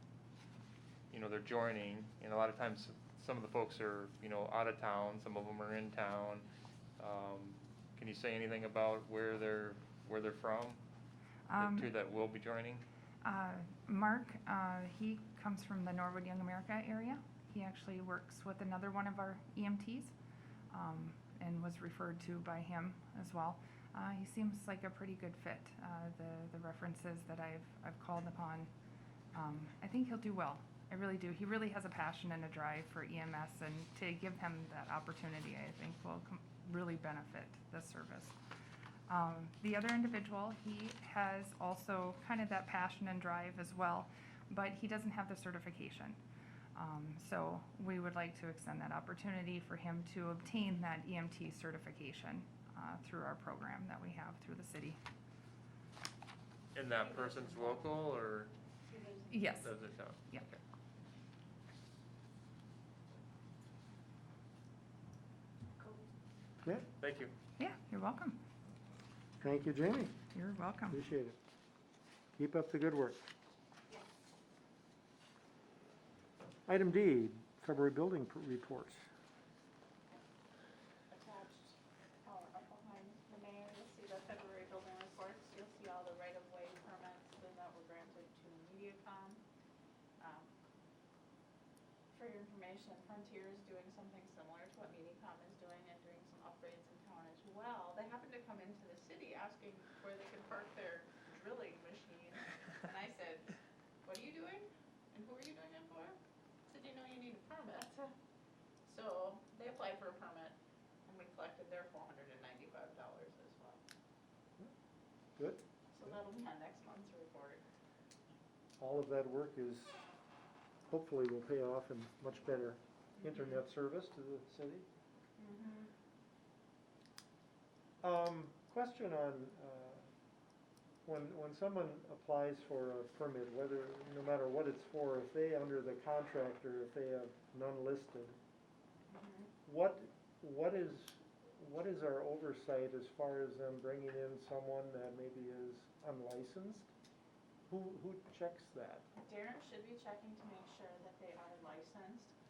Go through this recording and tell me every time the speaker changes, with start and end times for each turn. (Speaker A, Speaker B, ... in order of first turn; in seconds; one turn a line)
Speaker A: 1.1-6.5
Speaker A: 7.0-10.8
Speaker B: 11.5-11.9
Speaker A: 11.6-12.8
Speaker B: 13.2-20.1
Speaker B: 20.7-28.7
Speaker B: 29.3-38.4
Speaker B: 39.1-46.2
Speaker B: 46.8-55.0
Speaker A: 56.7-58.5
Speaker B: 59.3-59.7
Speaker A: 59.6-60.6
Speaker A: 67.0-67.3
Speaker B: 67.6-68.4
Speaker C: 69.4-70.2
Speaker B: 70.3-71.0
Speaker C: 70.9-71.3
Speaker C: 72.4-73.2
Speaker C: 76.7-79.0
Speaker D: 81.1-89.4
Speaker D: 90.2-90.5
Speaker D: 92.1-103.5
Speaker D: 104.0-106.2
Speaker D: 106.7-108.1
Speaker D: 108.8-113.8
Speaker C: 115.4-115.6
Speaker D: 115.9-117.6
Speaker C: 118.8-120.0
Speaker C: 120.9-124.8
Speaker D: 123.2-123.6
Speaker D: 125.4-125.9
Speaker C: 128.0-130.0
Speaker C: 131.0-138.4
Speaker D: 139.1-139.5
Speaker C: 139.7-146.9
Speaker C: 147.7-149.0
Speaker D: 149.2-152.3